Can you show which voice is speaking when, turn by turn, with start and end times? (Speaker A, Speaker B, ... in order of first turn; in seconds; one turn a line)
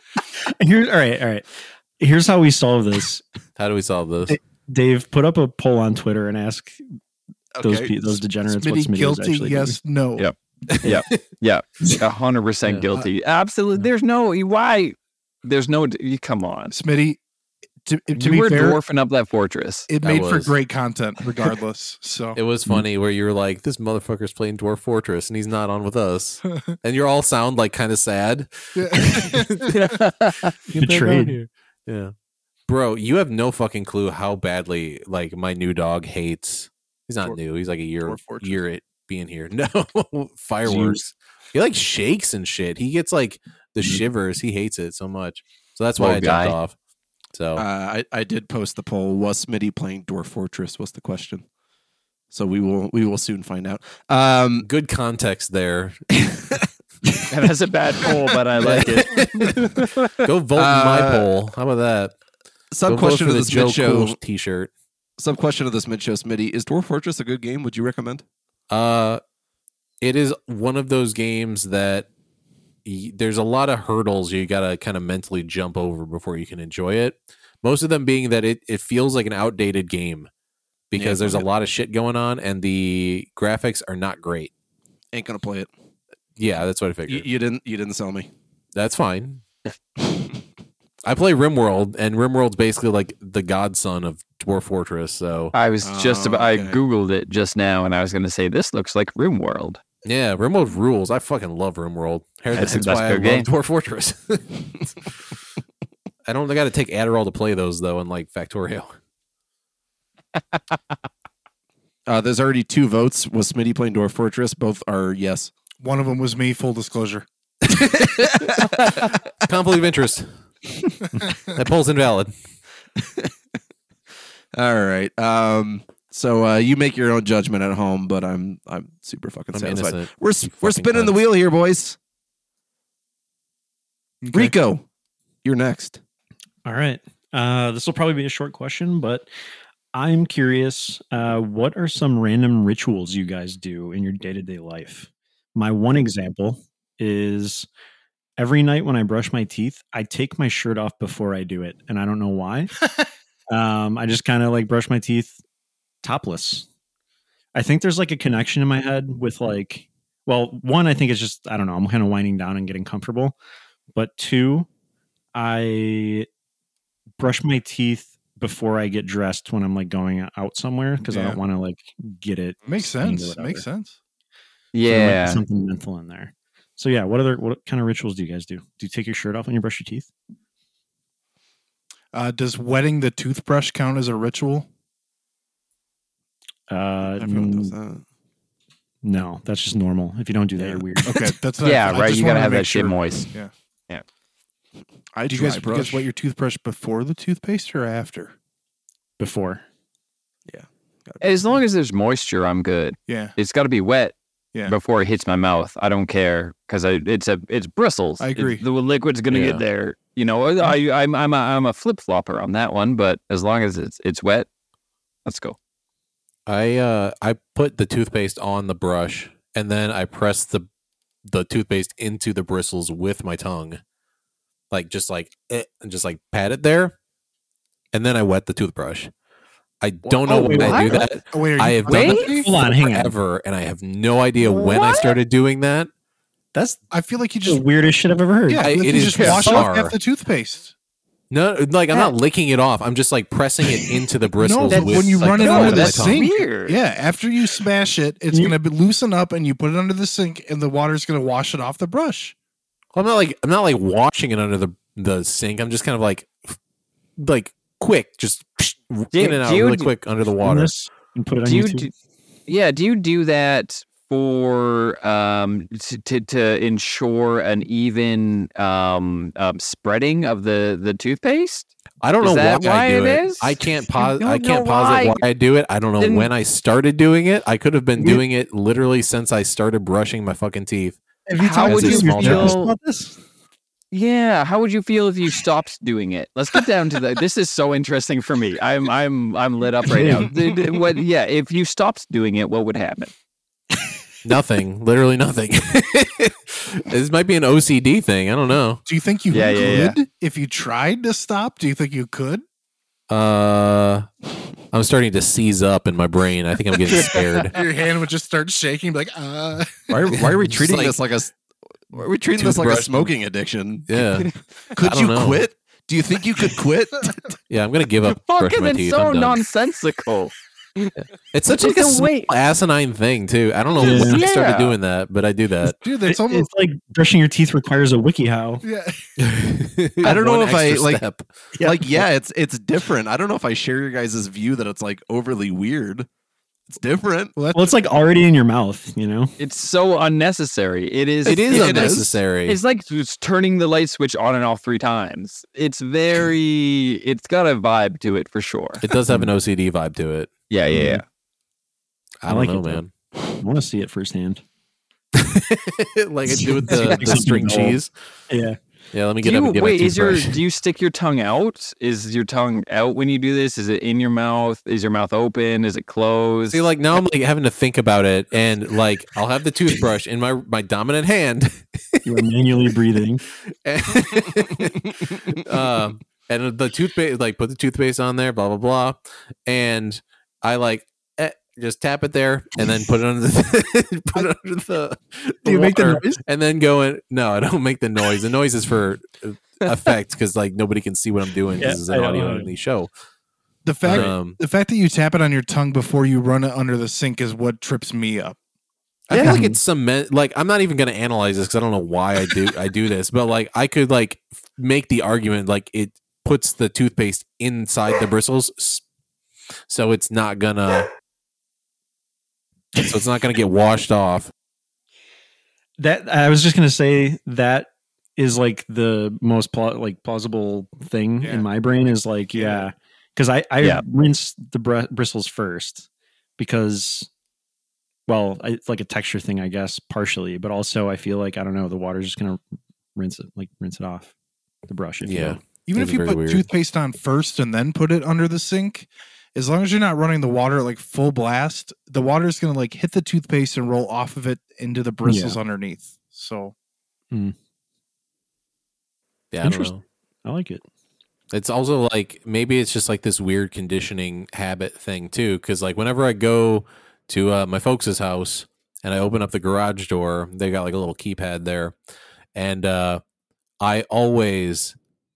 Speaker A: 0.4-3.2
Speaker B: 3.6-4.4
Speaker A: 4.3-7.0
Speaker C: 7.5-8.2
Speaker A: 7.6-9.8
Speaker D: 8.4-10.3
Speaker E: 10.2-16.7
Speaker D: 16.7-17.2
Speaker D: 17.9-18.8
Speaker E: 18.1-19.9
Speaker D: 19.9-22.4
Speaker B: 20.0-20.5
Speaker B: 22.3-29.7
Speaker D: 28.7-29.7
Speaker E: 29.7-30.5
Speaker D: 30.7-31.4
Speaker A: 30.8-31.4
Speaker B: 30.8-32.1
Speaker B: 32.7-46.7
Speaker D: 38.0-38.6
Speaker A: 40.6-41.0
Speaker E: 46.0-46.6
Speaker B: 47.3-47.6
Speaker C: 47.5-51.4
Speaker C: 52.3-54.7
Speaker B: 54.6-56.3
Speaker E: 57.3-60.1
Speaker B: 58.6-62.2
Speaker C: 60.5-61.3
Speaker C: 62.7-64.2
Speaker B: 62.8-64.7
Speaker C: 65.2-68.2
Speaker B: 68.7-69.2
Speaker B: 70.0-72.1
Speaker B: 72.8-80.3
Speaker B: 80.9-84.5
Speaker C: 80.9-81.5
Speaker C: 85.1-85.7
Speaker B: 86.4-87.3
Speaker C: 87.1-88.3
Speaker B: 88.7-89.4
Speaker C: 90.0-90.3
Speaker B: 91.0-95.5
Speaker E: 95.5-99.8
Speaker C: 95.8-96.8
Speaker B: 100.0-104.7
Speaker E: 102.5-103.5
Speaker B: 106.2-109.0
Speaker C: 112.1-115.5
Speaker D: 115.8-117.2
Speaker C: 118.0-118.6
Speaker E: 118.7-119.1
Speaker B: 119.4-120.5
Speaker B: 121.5-122.3
Speaker C: 123.0-123.3
Speaker C: 124.5-132.0
Speaker B: 129.5-131.2
Speaker D: 134.2-134.6
Speaker C: 134.3-134.8
Speaker C: 135.4-136.0
Speaker A: 136.6-139.3
Speaker A: 139.9-147.7
Speaker A: 148.4-152.8
Speaker A: 153.5-155.4
Speaker A: 156.0-156.7
Speaker A: 157.5-163.4
Speaker A: 163.9-164.7
Speaker A: 165.3-166.3
Speaker A: 167.2-173.6
Speaker D: 171.1-171.4
Speaker D: 172.6-173.9
Speaker E: 174.7-175.4
Speaker A: 174.9-180.1
Speaker D: 182.1-184.7
Speaker A: 186.7-187.7
Speaker C: 187.1-188.0
Speaker A: 189.0-191.1
Speaker D: 191.0-193.5
Speaker E: 191.6-194.0
Speaker C: 195.1-196.0
Speaker D: 195.3-198.3
Speaker A: 199.2-199.6
Speaker C: 200.5-201.3
Speaker E: 201.2-204.1
Speaker D: 203.1-203.3
Speaker E: 204.7-214.5
Speaker D: 208.2-208.6
Speaker B: 209.3-209.6
Speaker E: 215.2-215.6
Speaker B: 216.5-220.7
Speaker B: 221.3-223.8
Speaker B: 224.7-226.9
Speaker B: 227.9-229.1
Speaker B: 229.8-235.9
Speaker D: 230.1-230.8
Speaker E: 230.3-231.1
Speaker A: 230.3-231.1
Speaker D: 231.3-232.6
Speaker E: 231.9-232.3
Speaker A: 232.3-233.2
Speaker E: 234.4-235.2
Speaker A: 236.5-236.8
Speaker D: 236.9-237.7
Speaker A: 237.4-239.4
Speaker D: 238.5-240.7
Speaker B: 238.6-239.9
Speaker E: 239.1-239.6
Speaker B: 241.3-246.2
Speaker D: 244.4-252.3
Speaker E: 244.7-246.8
Speaker B: 252.9-256.6
Speaker B: 257.2-260.8
Speaker E: 259.1-259.9
Speaker A: 260.4-261.9
Speaker E: 261.4-261.9
Speaker E: 262.5-275.2
Speaker B: 272.0-281.0
Speaker E: 276.0-276.3
Speaker A: 278.0-278.2
Speaker A: 281.3-283.2
Speaker E: 281.4-282.7
Speaker B: 281.6-282.6
Speaker E: 283.9-293.1
Speaker B: 290.0-290.3
Speaker B: 294.2-298.8
Speaker D: 298.9-302.4
Speaker E: 299.3-299.9
Speaker B: 303.1-304.1
Speaker B: 304.7-307.6
Speaker D: 306.9-310.1
Speaker C: 309.9-311.3
Speaker B: 310.3-311.0
Speaker C: 311.9-314.1
Speaker B: 312.4-313.1
Speaker B: 313.9-315.4
Speaker C: 314.7-317.1
Speaker B: 317.5-319.4
Speaker E: 318.1-320.9
Speaker B: 321.0-325.8
Speaker E: 321.5-322.3
Speaker A: 323.8-324.2
Speaker E: 323.8-324.8
Speaker A: 325.7-328.6
Speaker D: 325.8-326.5
Speaker D: 328.6-329.1
Speaker B: 329.2-331.4
Speaker C: 330.0-331.0
Speaker C: 331.6-336.1
Speaker C: 336.7-337.3
Speaker D: 337.3-337.8
Speaker A: 337.5-339.4
Speaker E: 339.4-348.8
Speaker B: 341.2-342.6
Speaker C: 341.3-342.1
Speaker B: 348.8-350.3
Speaker E: 350.5-351.0
Speaker A: 350.7-351.0
Speaker B: 352.2-352.9
Speaker A: 352.2-354.4
Speaker B: 355.1-357.9
Speaker A: 356.3-357.8
Speaker E: 356.7-356.9
Speaker A: 358.3-358.6
Speaker B: 358.9-360.4
Speaker E: 359.2-366.6
Speaker B: 366.5-372.1
Speaker A: 372.0-373.2
Speaker B: 373.6-392.9
Speaker A: 385.4-386.2
Speaker A: 391.6-392.5
Speaker D: 393.6-398.4
Speaker B: 393.9-394.4
Speaker B: 399.1-408.8
Speaker A: 399.2-399.6
Speaker B: 409.7-410.9
Speaker B: 412.8-414.3
Speaker A: 415.8-425.9
Speaker D: 421.2-421.4
Speaker D: 422.3-422.7
Speaker A: 426.4-427.1
Speaker A: 428.1-432.4
Speaker A: 432.9-434.1
Speaker A: 434.7-435.4
Speaker B: 435.0-436.5
Speaker D: 435.7-446.5
Speaker A: 445.0-445.4
Speaker A: 447.1-447.4
Speaker B: 449.3-449.8
Speaker A: 449.4-450.6
Speaker B: 451.3-461.8
Speaker B: 462.3-463.0
Speaker B: 463.6-464.8